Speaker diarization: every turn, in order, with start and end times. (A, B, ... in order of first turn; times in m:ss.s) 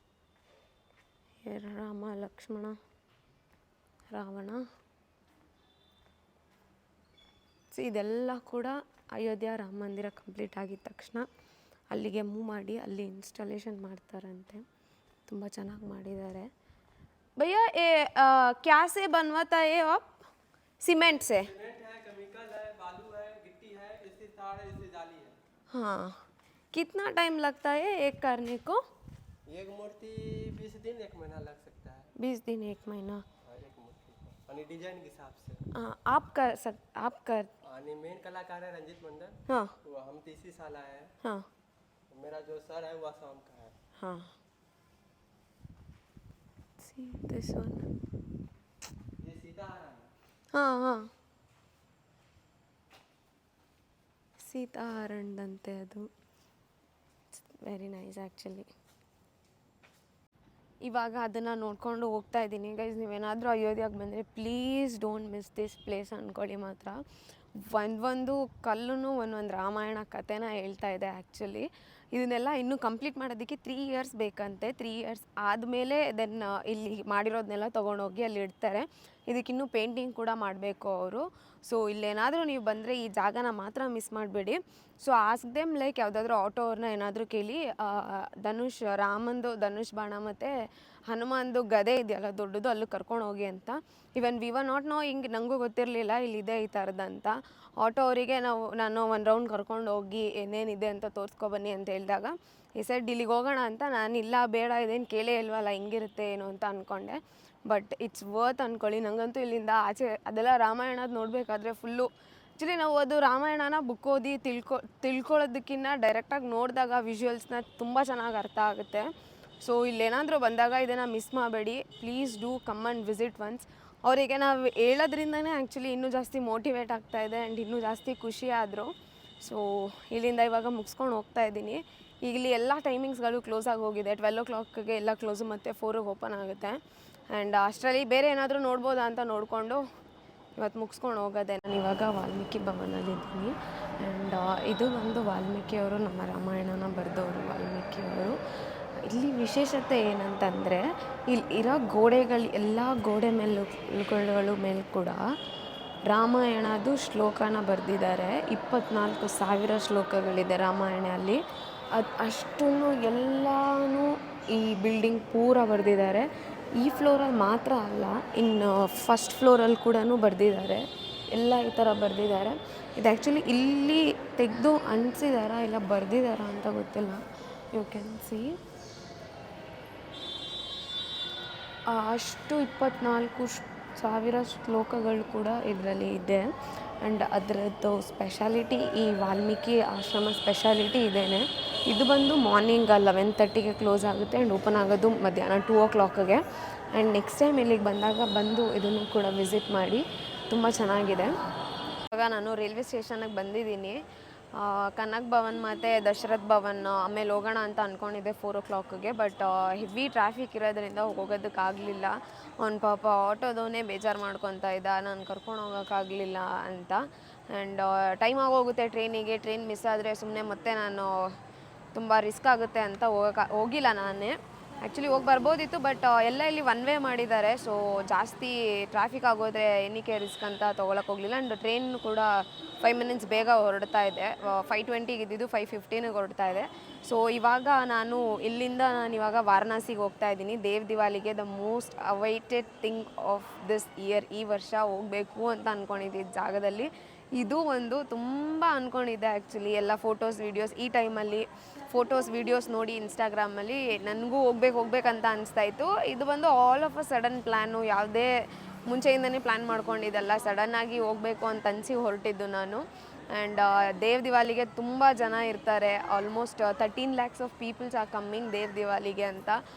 0:01.4-0:02.8 A
0:04.1-0:04.6 A
0:07.7-0:11.3 A
0:11.9-0:14.6 A
0:15.3-0:16.5 A
0:17.4-0:20.1 A
0:20.8-0:21.5 A
0:21.3-0:25.4 B
0:25.7-0:26.2 A
0:26.7-0:28.8 A
0:29.5-0:32.1 B
0:32.2-0:33.2 A
0:33.4-0:35.7 B
0:35.7-0:37.5 A
0:37.6-0:41.1 B
0:39.5-0:39.7 A
0:42.1-0:43.8 B
0:44.0-0:44.3 A
0:46.8-0:47.9 A
0:49.2-0:50.1 B
0:50.5-0:51.1 A
0:54.4-0:56.1 A
0:57.3-0:58.7 A
1:00.8-1:07.0 A
1:07.6-1:30.5 A
1:31.1-1:59.1 A
1:59.6-2:16.8 A
2:17.3-2:19.8 A
2:20.6-2:28.4 A
2:29.0-2:35.2 A
2:36.1-2:58.6 A
3:01.9-3:06.4 A
3:07.0-3:21.3 A
3:22.1-3:24.0 A
3:24.5-3:41.1 A
3:41.9-4:18.3 A
4:18.9-4:29.6 A